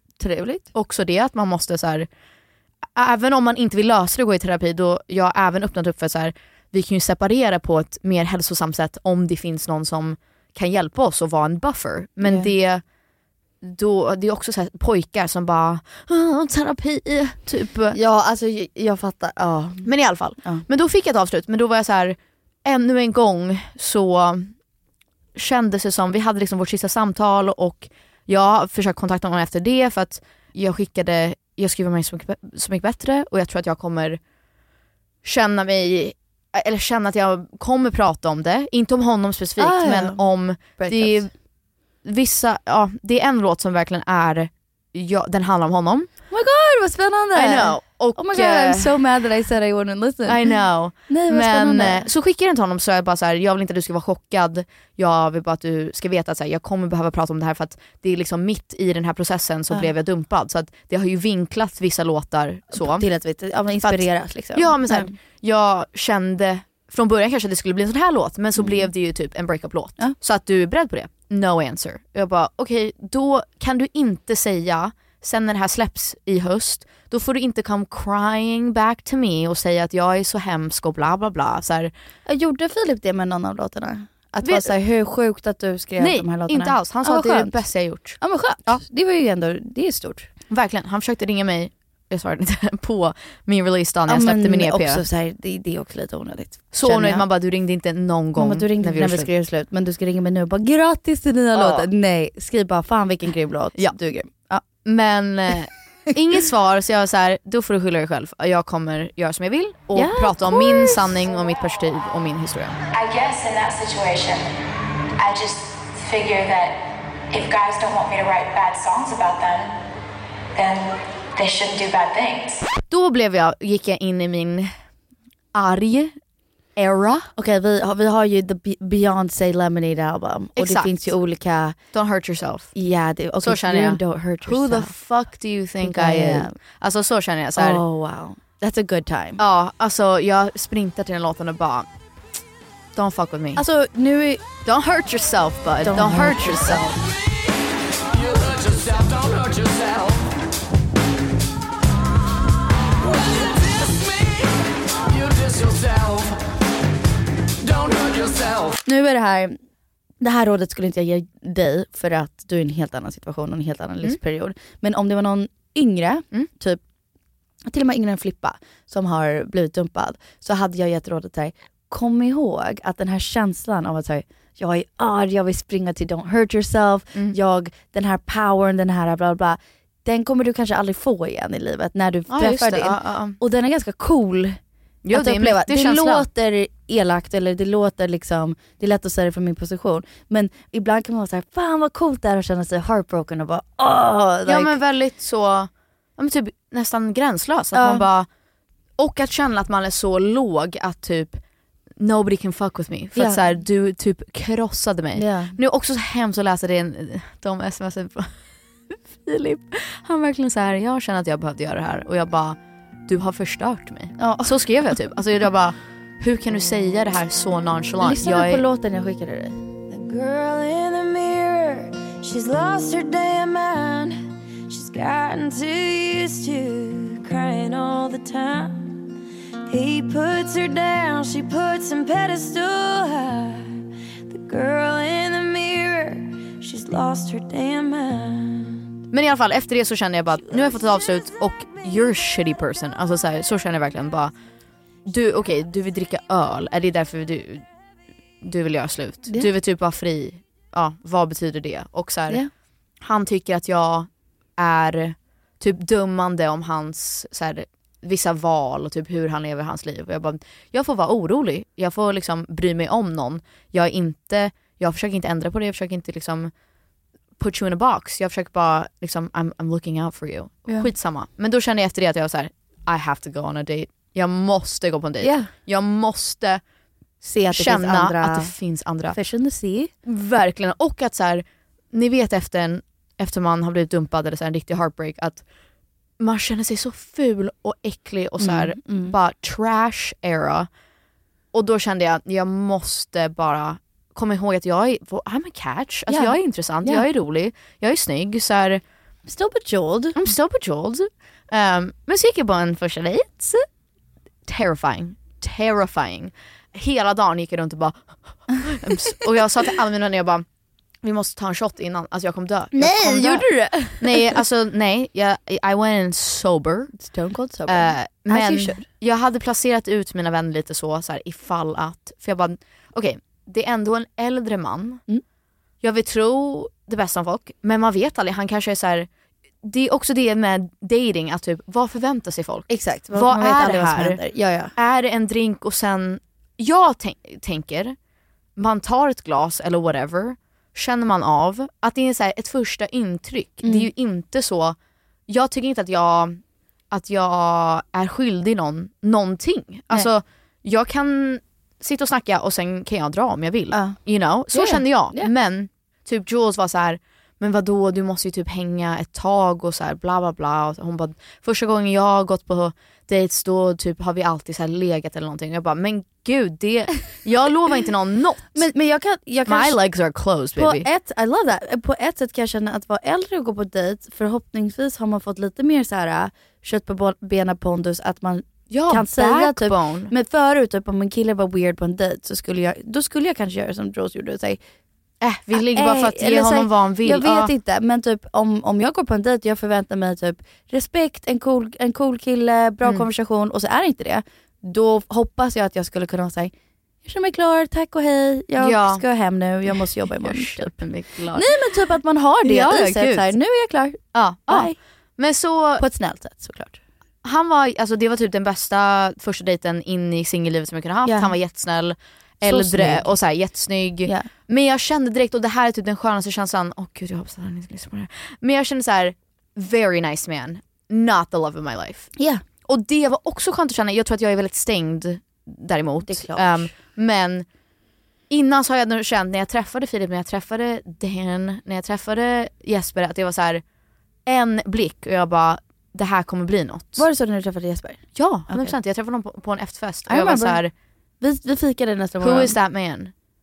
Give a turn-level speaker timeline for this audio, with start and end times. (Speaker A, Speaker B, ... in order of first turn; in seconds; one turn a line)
Speaker A: 0.2-0.7
Speaker B: 0.7-2.1
Speaker B: 2.9-12.8
Speaker A: 12.2-12.5
Speaker B: 13.6-18.0
Speaker A: 17.9-19.9
Speaker B: 19.8-24.5
Speaker B: 25.3-34.2
Speaker B: 35.2-41.3
Speaker A: 39.6-40.2
Speaker A: 40.8-41.3
Speaker B: 42.0-46.1
Speaker A: 46.3-50.5
Speaker B: 47.3-49.0
Speaker B: 50.2-63.0
Speaker A: 51.1-52.1
Speaker A: 62.7-65.2
Speaker B: 63.8-81.9
Speaker A: 68.6-68.9
Speaker A: 82.2-87.6
Speaker B: 84.4-84.7
Speaker B: 86.0-88.8
Speaker A: 88.2-90.3
Speaker B: 90.5-95.0
Speaker A: 94.1-97.2
Speaker B: 96.7-99.3
Speaker A: 98.3-104.6
Speaker B: 101.5-101.9
Speaker B: 104.8-112.8
Speaker A: 109.9-111.2
Speaker C: 112.9-114.4
Speaker C: 115.2-116.8
Speaker C: 117.3-119.7
Speaker C: 120.5-122.6
Speaker B: 122.9-124.7
Speaker B: 125.5-126.2
Speaker B: 126.8-127.3
Speaker A: 127.4-131.8
Speaker B: 130.6-131.1
Speaker B: 131.9-132.7
Speaker A: 132.7-134.9
Speaker B: 133.4-137.8
Speaker A: 135.8-136.6
Speaker A: 137.6-139.4
Speaker B: 139.4-141.9
Speaker B: 142.9-143.6
Speaker A: 143.6-144.4
Speaker B: 144.6-147.0
Speaker A: 145.8-146.8
Speaker A: 158.8-159.6
Speaker A: 160.2-166.8
Speaker A: 167.7-184.6
Speaker B: 182.3-183.4
Speaker B: 185.0-186.2
Speaker A: 185.1-194.8
Speaker B: 194.5-198.3
Speaker A: 197.7-198.1
Speaker B: 199.0-201.4
Speaker B: 202.0-208.3
Speaker A: 203.2-203.4
Speaker A: 205.1-205.6
Speaker B: 209.2-218.6
Speaker A: 214.2-214.6
Speaker A: 218.0-219.7
Speaker C: 220.0-224.1
Speaker C: 224.7-228.9
Speaker C: 229.7-233.6
Speaker C: 234.3-236.1
Speaker C: 236.6-238.4
Speaker B: 239.1-244.3
Speaker B: 245.1-247.6
Speaker B: 248.4-252.4
Speaker B: 253.0-266.5
Speaker B: 267.4-276.6
Speaker A: 275.2-275.5
Speaker A: 277.2-278.5
Speaker B: 277.5-279.2
Speaker A: 279.1-279.9
Speaker B: 280.0-285.4
Speaker B: 286.2-290.7
Speaker A: 288.4-289.1
Speaker B: 291.5-298.8
Speaker A: 296.1-297.1
Speaker A: 299.2-300.2
Speaker B: 300.1-303.6
Speaker B: 304.4-310.4
Speaker B: 311.0-313.5
Speaker A: 312.7-314.4
Speaker B: 314.0-316.9
Speaker A: 316.9-318.8
Speaker B: 317.7-325.0
Speaker B: 325.8-329.1
Speaker B: 329.6-334.2
Speaker A: 332.7-334.7
Speaker B: 334.8-337.9
Speaker B: 338.6-344.8
Speaker A: 343.6-343.9
Speaker B: 345.3-346.4
Speaker B: 346.9-368.7
Speaker A: 353.7-354.0
Speaker A: 354.5-355.3
Speaker A: 368.5-369.8
Speaker B: 369.4-370.9
Speaker A: 370.6-384.6
Speaker B: 378.7-380.1
Speaker B: 385.2-387.5
Speaker A: 385.5-396.5
Speaker B: 392.8-393.1
Speaker A: 397.0-404.8
Speaker B: 398.6-399.0
Speaker B: 399.7-401.5
Speaker B: 402.4-403.3
Speaker B: 404.1-405.8
Speaker A: 405.8-406.8
Speaker B: 407.2-422.1
Speaker A: 411.0-411.3
Speaker A: 412.4-413.1
Speaker A: 422.2-422.4
Speaker B: 422.6-427.4
Speaker A: 426.1-426.7
Speaker B: 428.3-433.6
Speaker B: 434.2-437.1
Speaker A: 436.9-438.7
Speaker B: 438.1-440.7
Speaker A: 440.1-440.6
Speaker A: 441.2-442.6
Speaker B: 442.2-443.1